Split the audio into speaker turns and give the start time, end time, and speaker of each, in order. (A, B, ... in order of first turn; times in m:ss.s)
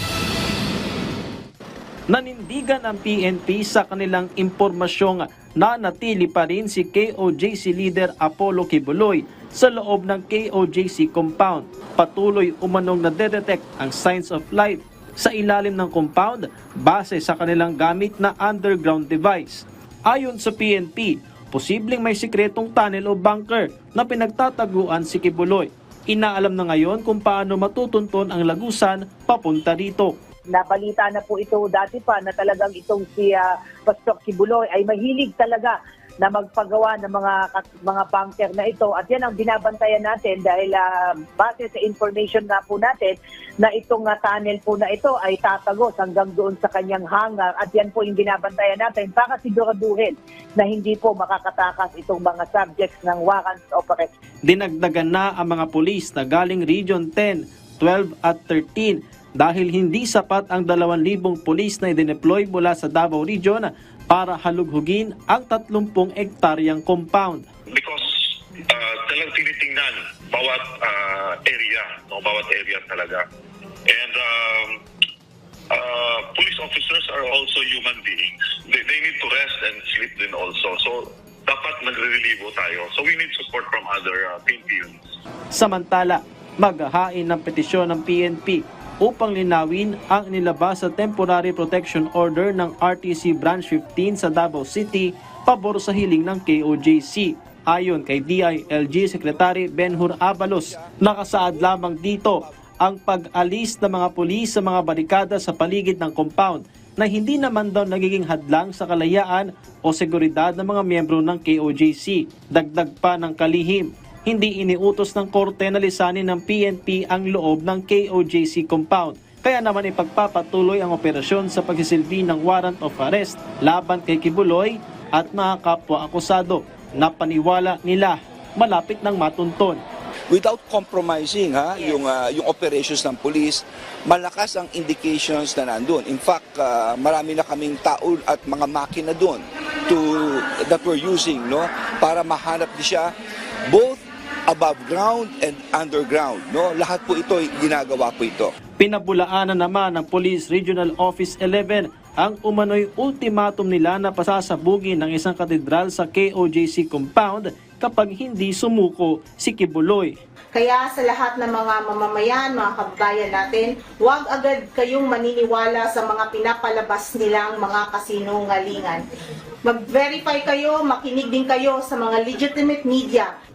0:02.1-0:30.1 A
0:30.5-0:54.1 B
0:54.4-1:07.5 A
1:07.7-1:08.1 C
1:08.7-1:13.2 C
1:13.9-1:14.8 C
1:15.7-1:25.0 C
1:25.5-2:09.8 A
1:40.0-1:41.0 D
1:41.5-1:42.5 D
2:10.3-2:23.1 D
2:23.7-2:28.5 D
2:28.8-2:40.2 A
2:40.6-2:49.0 E
2:49.7-2:53.2 E